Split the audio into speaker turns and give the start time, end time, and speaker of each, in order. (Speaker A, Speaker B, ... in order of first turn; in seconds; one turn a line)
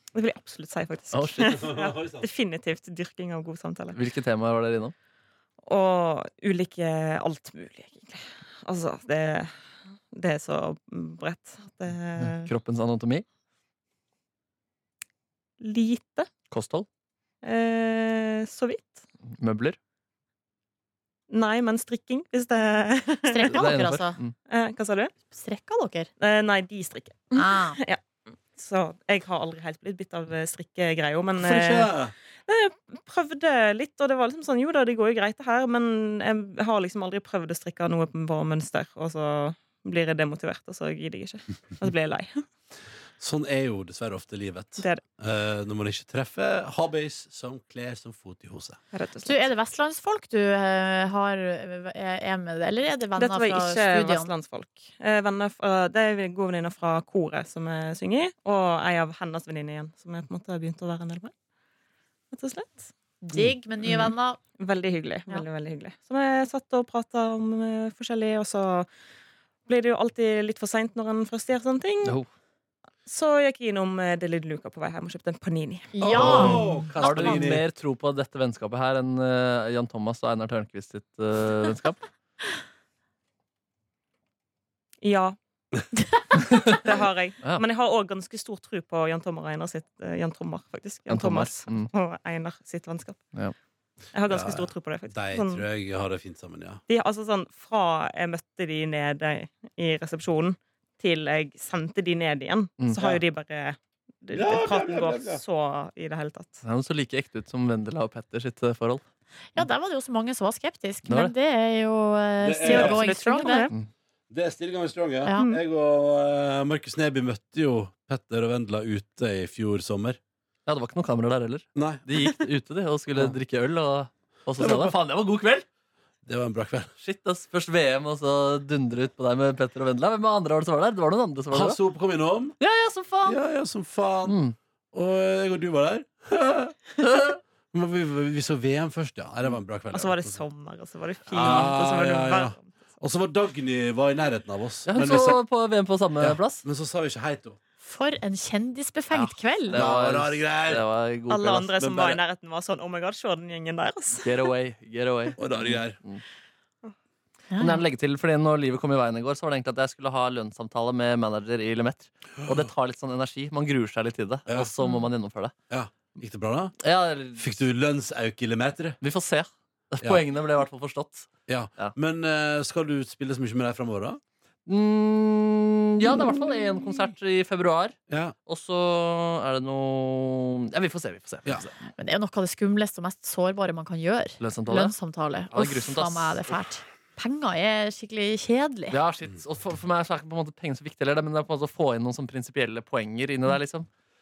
Speaker A: 0.1-4.0
Speaker B: 1.1-1.6
Speaker C: 1.5-2.2
Speaker B: 3.9-4.9
Speaker A: 5.6-9.5
Speaker A: 10.1-12.5
Speaker B: 12.2-13.2
Speaker A: 15.6-16.3
Speaker B: 16.5-16.9
Speaker A: 17.4-19.0
Speaker B: 19.3-19.8
Speaker A: 21.3-23.7
Speaker D: 23.3-24.2
Speaker B: 23.5-24.3
Speaker A: 24.5-25.1
Speaker D: 25.3-26.1
Speaker A: 26.2-28.0
Speaker D: 27.3-27.8
Speaker A: 28.5-31.9
Speaker C: 31.4-32.1
Speaker A: 32.5-42.4
Speaker C: 43.2-48.8
Speaker A: 48.9-49.5
Speaker D: 49.2-54.3
Speaker A: 53.2-61.3
Speaker A: 62.3-62.9
Speaker D: 63.2-64.4
Speaker A: 63.8-68.9
Speaker A: 69.7-72.1
Speaker A: 73.0-76.6
Speaker D: 75.9-76.8
Speaker C: 76.0-77.6
Speaker B: 76.2-82.0
Speaker A: 85.0-85.4
Speaker A: 86.3-93.2
Speaker B: 91.1-91.9
Speaker A: 94.1-95.6
Speaker C: 94.3-96.8
Speaker A: 96.9-106.6
Speaker C: 103.0-103.2
Speaker C: 104.3-105.4
Speaker B: 106.6-109.0
Speaker D: 109.5-113.7
Speaker B: 111.0-111.3
Speaker C: 112.4-113.1
Speaker A: 112.6-113.7
Speaker C: 114.3-120.2
Speaker A: 115.3-115.6
Speaker B: 120.7-125.7
Speaker C: 121.7-122.3
Speaker C: 124.6-124.9
Speaker C: 126.2-126.9
Speaker B: 127.0-131.8
Speaker C: 131.5-132.6
Speaker B: 132.6-133.4
Speaker C: 133.2-134.4
Speaker B: 134.2-134.6
Speaker C: 134.9-136.8
Speaker B: 137.0-137.4
Speaker C: 137.7-140.4
Speaker A: 139.9-142.7
Speaker B: 141.3-141.8
Speaker C: 141.3-145.4
Speaker B: 144.9-146.6
Speaker C: 146.2-147.6
Speaker D: 147.8-149.8
Speaker B: 149.1-151.8
Speaker C: 149.7-150.8
Speaker A: 151.3-154.3
Speaker C: 151.8-152.2
Speaker B: 154.2-156.2
Speaker C: 155.4-156.0
Speaker D: 157.5-157.8
Speaker B: 157.6-165.5
Speaker C: 165.7-166.7
Speaker B: 166.8-167.6
Speaker C: 167.4-169.0
Speaker B: 169.0-171.9
Speaker C: 171.5-174.2
Speaker B: 174.7-181.7
Speaker C: 178.1-178.3
Speaker D: 181.9-189.0
Speaker B: 184.4-184.9
Speaker B: 185.5-186.6
Speaker B: 188.9-193.9